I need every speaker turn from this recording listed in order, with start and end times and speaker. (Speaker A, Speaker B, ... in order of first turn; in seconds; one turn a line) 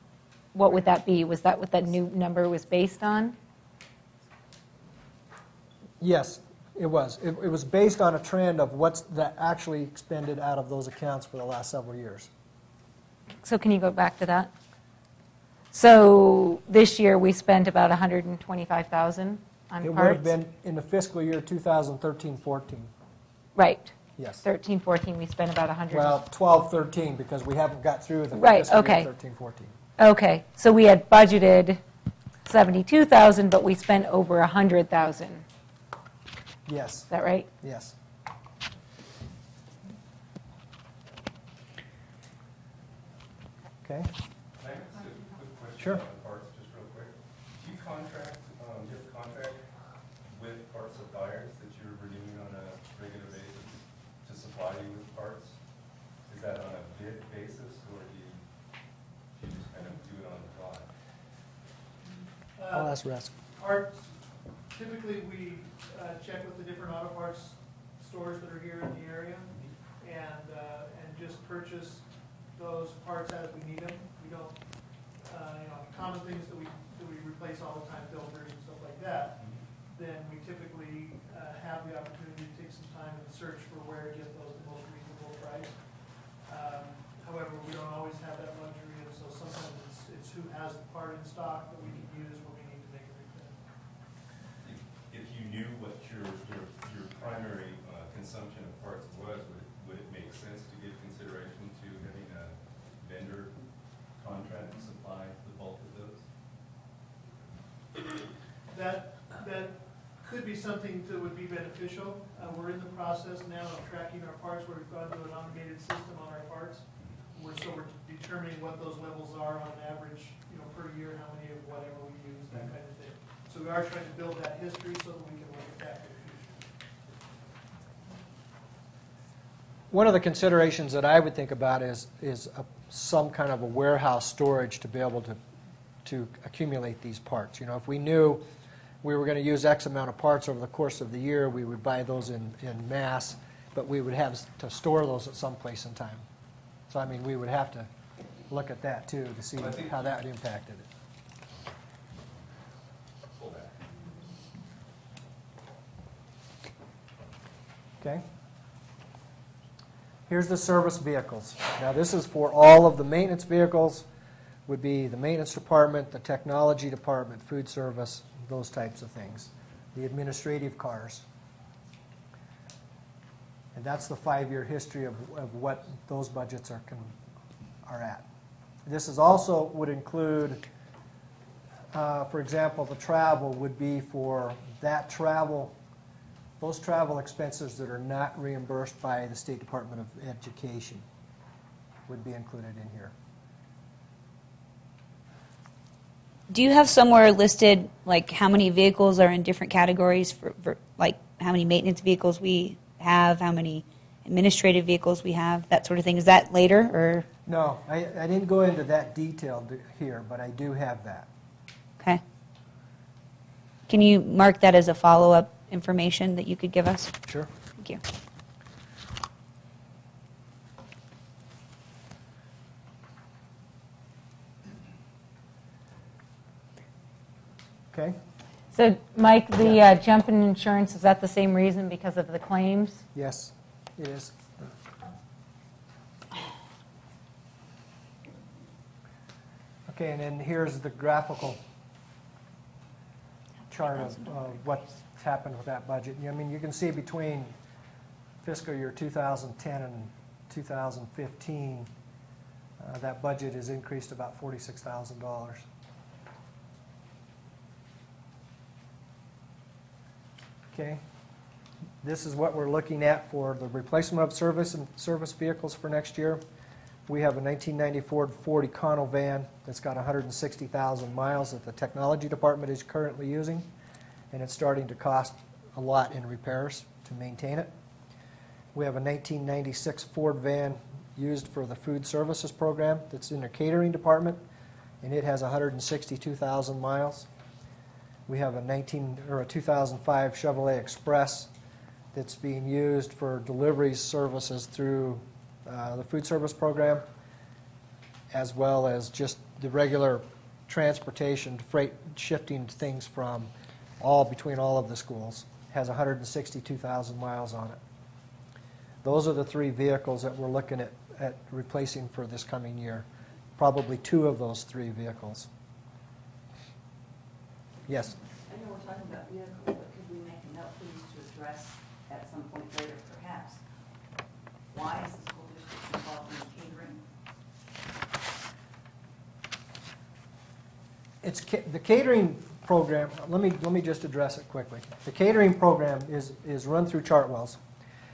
Speaker A: 0.5-3.4
Speaker B: 6.0-12.3
Speaker A: 13.4-14.5
Speaker A: 15.7-20.3
Speaker B: 19.8-22.9
Speaker A: 23.6-26.2
Speaker B: 24.2-24.4
Speaker B: 25.9-29.8
Speaker A: 28.3-29.1
Speaker A: 30.0-31.8
Speaker A: 32.5-35.4
Speaker B: 36.7-37.1
Speaker A: 37.1-37.5
Speaker B: 37.6-38.0
Speaker B: 43.8-44.1
Speaker C: 44.6-49.6
Speaker C: 50.3-55.6
Speaker C: 56.3-58.4
Speaker C: 59.4-60.9
Speaker D: 62.6-64.1
Speaker B: 62.7-63.3
Speaker D: 64.7-93.6
Speaker C: 94.6-103.5
Speaker C: 104.2-106.2
Speaker D: 108.7-126.7
Speaker B: 129.9-135.4
Speaker B: 136.0-138.5
Speaker B: 139.0-146.2
Speaker B: 146.9-147.9
Speaker B: 148.5-150.9
Speaker C: 149.6-150.0
Speaker C: 153.3-153.9
Speaker B: 158.0-158.3
Speaker B: 160.3-164.1
Speaker B: 164.7-171.2
Speaker B: 173.8-177.2
Speaker B: 177.8-178.3
Speaker B: 178.9-180.6
Speaker B: 181.9-185.8
Speaker B: 186.6-191.1
Speaker B: 192.1-193.1
Speaker E: 196.5-207.3
Speaker B: 207.5-211.3
Speaker E: 213.9-217.2
Speaker B: 227.9-228.2
Speaker A: 228.7-233.0
Speaker B: 233.1-234.7
Speaker B: 239.9-241.6
Speaker B: 243.7-247.6
Speaker B: 248.4-251.9
Speaker B: 252.8-255.7
Speaker B: 260.7-261.0
Speaker B: 262.0-266.4
Speaker B: 267.1-273.7
Speaker B: 274.3-277.7
Speaker B: 278.7-284.4
Speaker B: 285.0-287.3
Speaker B: 288.3-291.5
Speaker B: 292.1-297.1
Speaker B: 298.3-307.8
Speaker B: 309.0-313.1
Speaker B: 313.6-315.5
Speaker B: 317.9-318.2
Speaker F: 318.5-323.6
Speaker F: 324.7-327.0
Speaker B: 331.2-337.6